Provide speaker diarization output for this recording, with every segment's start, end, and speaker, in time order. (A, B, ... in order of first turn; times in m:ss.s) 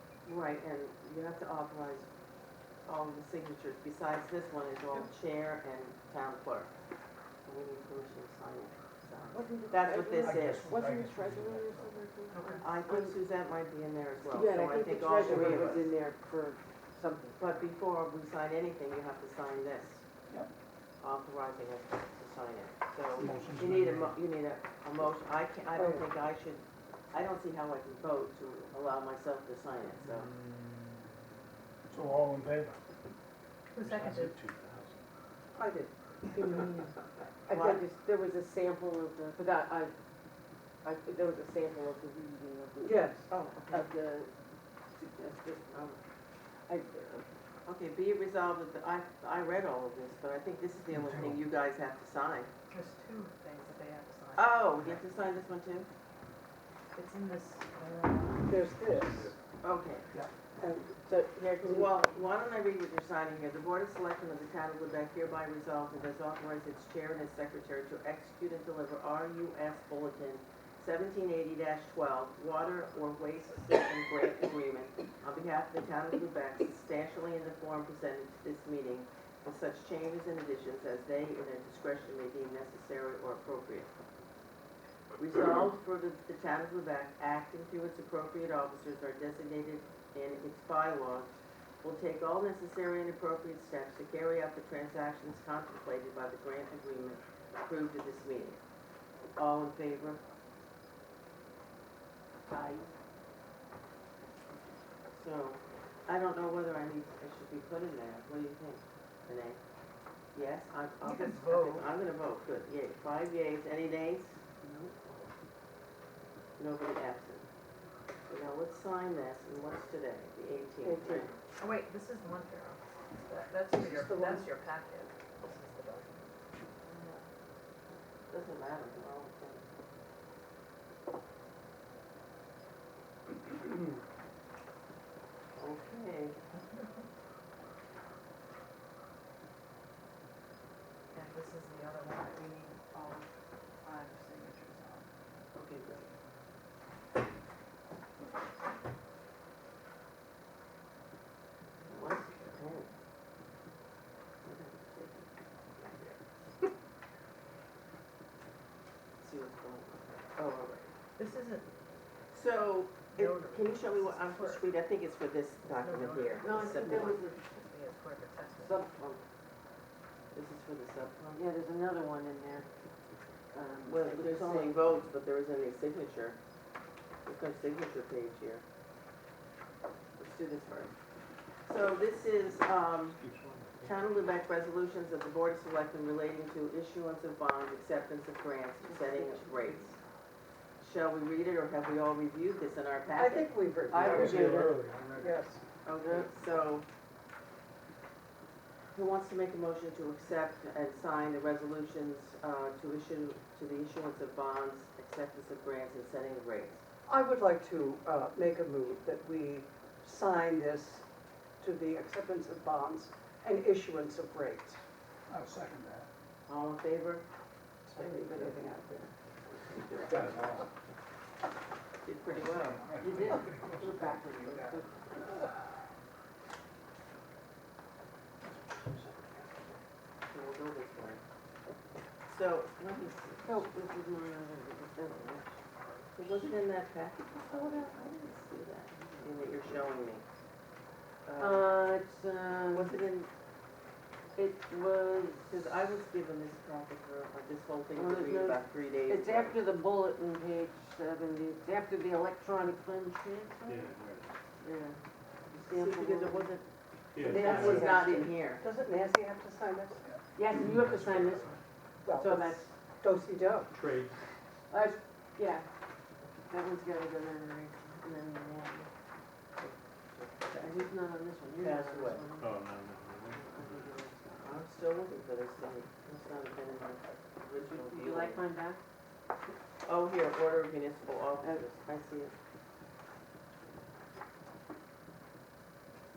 0:00.2-0:02.1 A
0:02.8-0:06.7 A
0:07.4-0:10.7 A
0:09.3-0:13.2 B
0:10.2-0:12.0 C
0:12.3-0:12.6 D
0:12.6-0:15.9 A
0:14.3-0:17.4 B
0:15.2-0:15.7 C
0:17.4-0:20.0 A
0:21.0-0:30.3 A
0:23.2-0:24.2 C
0:25.7-0:26.0 E
0:30.2-0:31.1 C
0:31.9-0:32.8 C
0:33.7-0:34.4 D
0:33.8-0:35.0 C
0:35.5-0:35.9 E
0:36.3-0:39.9 B
0:37.5-0:37.8 A
0:40.8-0:44.3 B
0:42.8-0:43.3 E
0:43.3-0:43.8 A
0:44.9-0:46.0 B
0:46.7-0:47.3 B
0:47.6-0:52.5 A
0:50.9-0:51.4 C
0:52.7-0:54.7 D
0:54.4-0:55.9 A
0:56.9-0:58.7 D
0:58.4-0:59.3 E
0:59.6-1:00.1 A
1:00.6-1:01.9 E
1:01.6-1:23.9 A
1:25.2-1:38.6 A
1:39.3-1:40.2 A
1:42.5-1:42.9 B
1:45.1-1:49.6 A
1:50.3-1:54.4 A
1:51.0-1:51.9 D
1:54.6-1:55.3 E
1:56.6-1:57.4 A
1:58.3-2:01.3 A
2:00.8-2:01.3 E
2:01.6-2:06.2 D
2:03.7-2:04.5 E
2:06.8-2:07.2 A
2:08.3-2:09.7 A
2:15.5-2:16.4 A
2:21.1-2:23.2 D
2:23.8-2:25.0 D
2:31.8-2:32.8 D
2:31.9-2:32.9 A
2:34.4-2:36.2 A
2:39.2-2:40.9 A
2:41.2-2:41.6 D
2:42.3-2:47.2 A
2:43.1-2:44.6 D
2:45.8-2:48.8 D
2:46.4-2:47.4 B
2:48.6-2:49.2 B
2:50.3-2:51.4 A
2:51.3-2:52.7 B
2:53.5-2:54.8 B
2:53.8-2:56.4 A
2:57.2-2:58.6 A
3:00.2-3:00.9 A
3:01.6-3:03.2 A
3:03.2-3:04.0 F
3:03.8-3:10.0 A
3:08.8-3:10.0 B
3:10.8-3:13.5 A
3:13.1-3:15.6 E
3:13.9-3:15.4 C
3:14.0-3:14.6 B
3:14.2-3:14.5 A
3:15.8-3:16.8 A
3:18.9-3:26.8 A
3:27.1-3:31.0 E
3:31.6-3:34.8 E
3:35.3-3:36.1 C
3:36.5-3:37.3 A
3:37.8-3:39.1 E
3:38.2-3:38.8 B
3:39.9-3:40.7 C
3:42.0-3:42.8 A
3:42.3-3:44.8 C
3:43.0-3:45.5 B
3:48.6-3:49.1 C
3:50.3-3:51.2 A
3:52.2-3:53.6 A
3:53.4-3:55.6 B
3:56.1-4:00.2 A
3:57.5-3:57.8 B
4:01.2-4:01.6 A
4:01.4-4:03.0 B
4:02.7-4:03.3 A
4:04.3-4:05.5 B
4:05.5-4:09.6 A
4:07.9-4:13.9 B
4:13.6-4:14.3 F
4:14.6-4:15.0 B
4:15.5-4:16.6 A
4:15.6-4:16.5 B
4:17.1-4:18.0 F
4:17.2-4:18.3 B
4:17.2-4:18.6 A
4:17.6-4:20.0 E
4:20.4-4:22.7 B
4:20.5-4:21.4 F
4:22.0-4:23.7 E
4:23.7-4:24.1 F
4:24.7-4:25.7 B
4:26.4-4:28.9 B
4:29.6-4:30.9 A
4:30.5-4:32.6 B
4:31.4-4:32.3 A
4:32.4-4:34.0 F
4:33.3-4:34.6 B
4:34.4-4:38.4 A
4:37.6-4:38.8 B
4:39.8-4:42.3 A